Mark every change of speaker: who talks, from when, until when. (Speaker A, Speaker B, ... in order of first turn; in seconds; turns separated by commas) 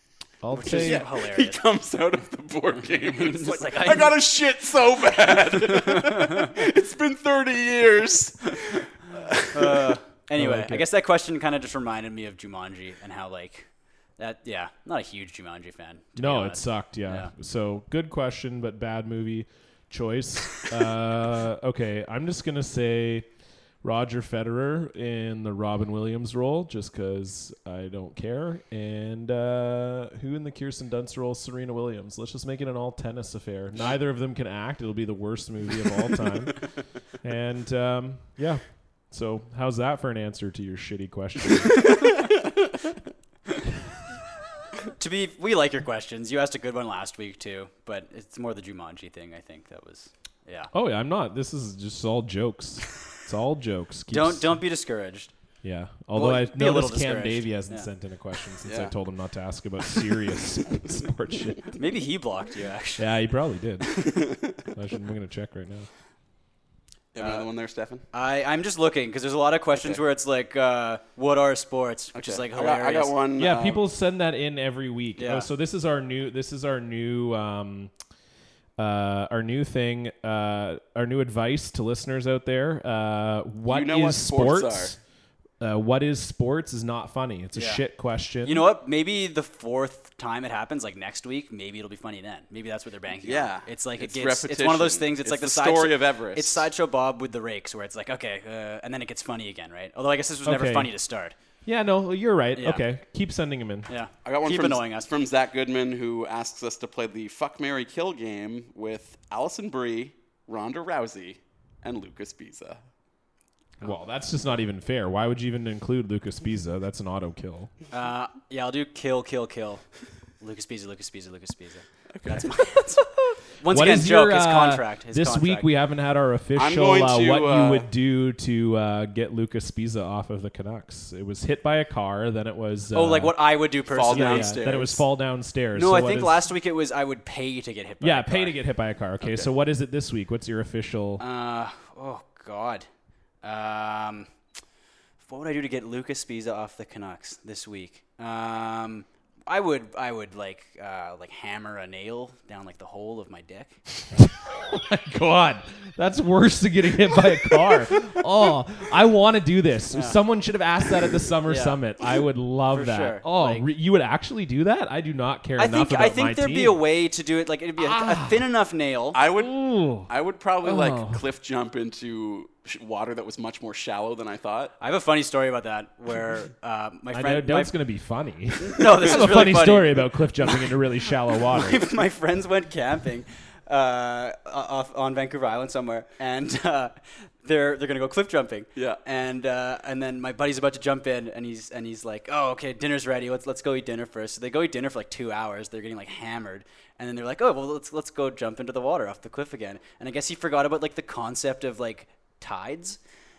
Speaker A: 0.4-1.1, Speaker B: 0.5-1.6, Speaker C: 0.6-9.9, Speaker B: 3.0-4.2, Speaker B: 5.7-6.5, Speaker B: 9.5-17.3, Speaker A: 10.4-10.8, Speaker A: 16.2-23.3, Speaker A: 23.8-41.9, Speaker B: 45.0-50.7, Speaker A: 50.7-54.5, Speaker B: 54.1-55.3, Speaker A: 55.6-61.7, Speaker B: 56.1-57.9, Speaker C: 58.6-58.9, Speaker B: 61.7-63.1, Speaker A: 63.0-64.1, Speaker A: 64.7-65.9, Speaker C: 67.1-68.0, Speaker B: 67.2-67.5, Speaker B: 68.1-73.1, Speaker C: 72.1-73.8, Speaker A: 73.4-77.9, Speaker B: 75.2-75.5, Speaker A: 78.8-85.0, Speaker C: 83.7-85.0, Speaker A: 85.6-88.6, Speaker B: 87.5-87.8, Speaker B: 88.4-101.3, Speaker C: 93.2-96.7, Speaker A: 100.5-100.9, Speaker A: 101.6-103.9, Speaker B: 102.5-102.8, Speaker B: 103.9-105.1, Speaker C: 104.2-112.8, Speaker A: 113.8-117.7, Speaker B: 117.9-119.8, Speaker B: 120.4-125.7, Speaker C: 122.1-122.5, Speaker A: 123.7-133.4, Speaker C: 126.5-127.9, Speaker B: 132.9-134.7, Speaker C: 133.9-135.0, Speaker A: 134.1-136.4, Speaker B: 135.7-138.6, Speaker A: 138.0-141.2, Speaker B: 141.2-142.9, Speaker B: 143.4-144.3, Speaker B: 145.2-153.8, Speaker A: 154.1-166.8, Speaker B: 159.9-160.2, Speaker B: 161.4-161.8, Speaker B: 162.7-163.7, Speaker B: 165.6-169.2, Speaker A: 167.8-168.4, Speaker C: 169.1-174.7, Speaker A: 169.4-170.1, Speaker A: 170.6-171.2, Speaker B: 174.8-177.7, Speaker A: 177.1-181.8, Speaker B: 178.6-180.7, Speaker B: 181.3-203.0